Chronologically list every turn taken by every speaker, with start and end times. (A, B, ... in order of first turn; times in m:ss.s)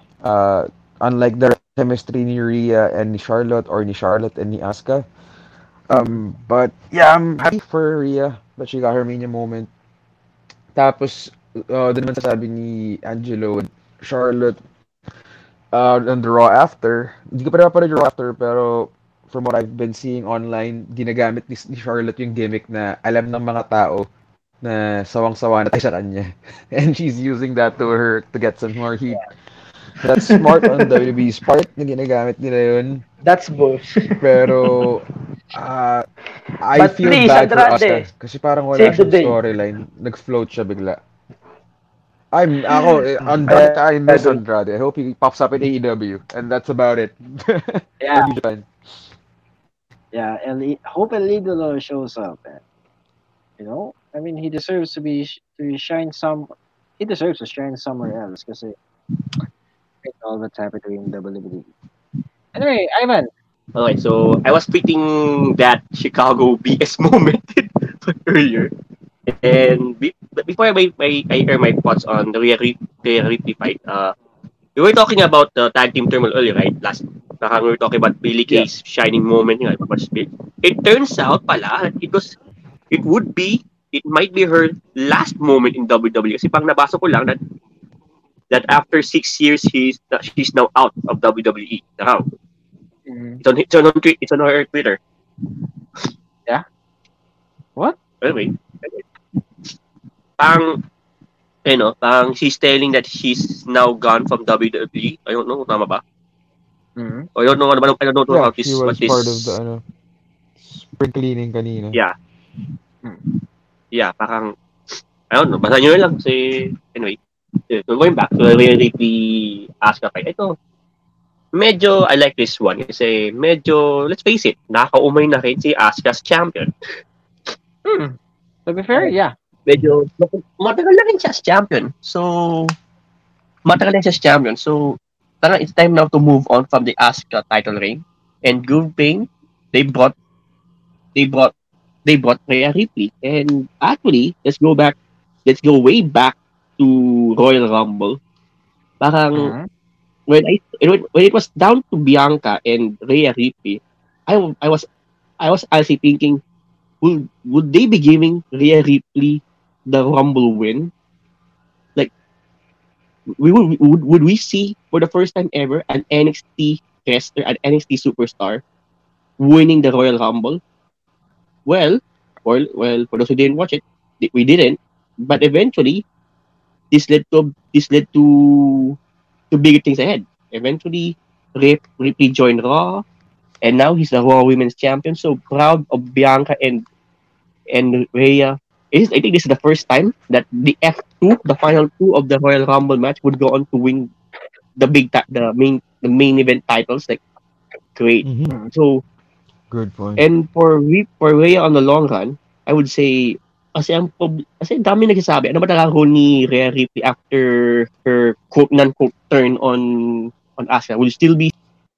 0:00.2-0:05.1 A
0:05.9-0:09.7 A
0:10.7-0:14.6 A
0:15.7-0:24.1 A
0:24.6-0:29.3 A
0:30.0-0:33.0 A
0:30.2-0:30.9 B
0:33.2-0:35.0 B
0:34.2-0:36.0 A
0:36.6-0:41.0 A
0:36.8-0:38.0 B
0:38.7-0:39.4 B
0:42.3-0:48.7 A
0:42.7-0:44.4 B
0:48.0-0:48.3 C
0:50.1-0:52.6 C
0:53.6-0:58.8 C
1:00.0-1:01.7 C
1:02.5-1:03.3 C
1:03.7-1:08.7 D
1:09.3-1:14.1 D
1:14.8-1:22.4 D
1:22.9-1:27.4 D
1:28.5-1:32.2 D
1:33.1-1:33.4 C
1:33.4-1:35.0 D
1:38.2-1:39.0 D
1:40.4-1:40.8 D
1:41.6-1:46.0 D
1:47.0-1:47.3 C
1:47.4-1:49.5 D
1:48.3-1:49.8 A
1:50.6-1:52.0 A
1:53.9-1:57.2 D
1:57.7-2:00.5 D
2:01.5-2:06.7 D
2:07.8-2:09.3 C
2:09.6-2:12.8 D
2:13.6-2:20.1 D
2:21.1-2:21.5 D
2:22.0-2:28.2 D
2:29.0-2:29.5 D
2:29.4-2:29.7 C
2:30.3-2:34.8 D
2:35.4-2:36.4 D
2:37.0-2:40.9 D
2:43.4-2:48.6 D
2:49.4-2:50.6 D
2:51.6-2:56.0 D
2:56.9-2:59.0 D
2:59.5-3:03.0 D
3:03.6-3:06.8 D
3:07.7-3:14.1 D
3:14.8-3:17.2 D
3:17.9-3:19.0 D
3:18.2-3:18.5 A
3:19.7-3:20.2 A
3:20.2-3:31.5 D